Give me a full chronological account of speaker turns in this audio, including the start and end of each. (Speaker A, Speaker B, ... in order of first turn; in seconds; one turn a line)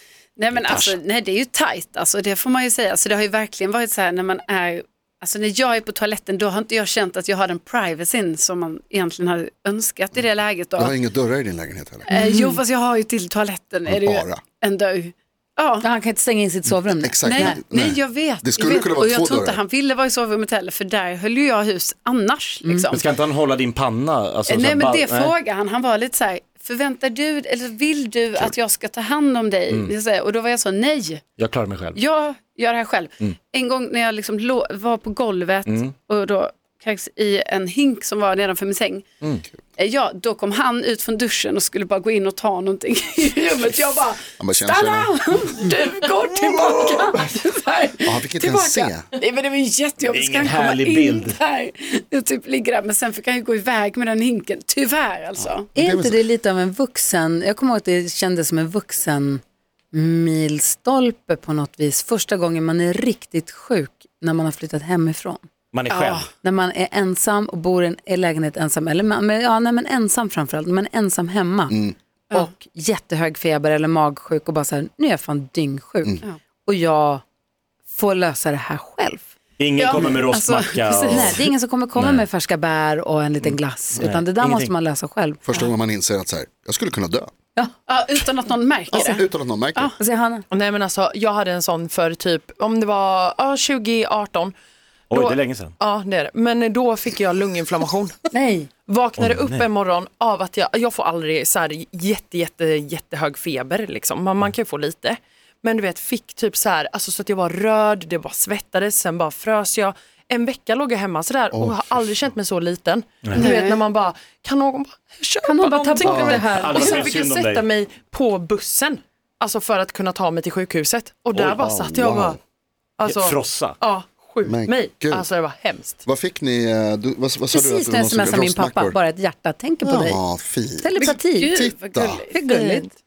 Speaker A: 0.4-10.9
Speaker B: 0.5-0.9
Speaker C: 10.8-12.1
Speaker A: 12.1-15.8
Speaker D: 12.1-12.6
Speaker C: 13.9-14.4
Speaker D: 15.8-17.6
Speaker C: 16.8-19.6
Speaker A: 17.3-23.1
Speaker B: 22.9-25.3
Speaker A: 24.5-31.2
Speaker B: 31.4-32.0
Speaker A: 31.9-39.0
Speaker B: 35.7-35.9
Speaker A: 39.8-55.7
Speaker C: 44.4-45.1
Speaker C: 48.0-49.1
Speaker B: 50.0-51.4
Speaker C: 55.7-56.2
Speaker D: 55.7-65.4
Speaker B: 65.7-66.3
Speaker A: 65.9-66.3
Speaker D: 66.4-77.2
Speaker C: 71.7-71.9
Speaker D: 77.9-79.3
Speaker B: 79.6-81.4
Speaker A: 79.8-81.3
Speaker D: 81.1-85.5
Speaker B: 82.0-82.2
Speaker B: 83.4-84.7
Speaker C: 85.4-87.3
Speaker A: 87.9-89.2
Speaker C: 88.9-89.9
Speaker D: 90.0-90.4
Speaker E: 90.5-94.5
Speaker B: 95.1-95.7
Speaker E: 95.1-98.2
Speaker D: 98.3-98.7
Speaker E: 98.9-122.4
Speaker B: 99.2-99.6
Speaker C: 111.5-112.0
Speaker A: 113.4-113.8
Speaker D: 115.4-117.0
Speaker B: 116.0-117.6
Speaker C: 121.3-122.4
Speaker E: 123.0-126.0
Speaker B: 123.0-123.8
Speaker C: 124.4-125.3
Speaker C: 126.0-129.0
Speaker D: 127.5-130.2
Speaker C: 129.8-132.2
Speaker D: 130.8-131.6
Speaker A: 131.0-132.5
Speaker D: 132.3-132.9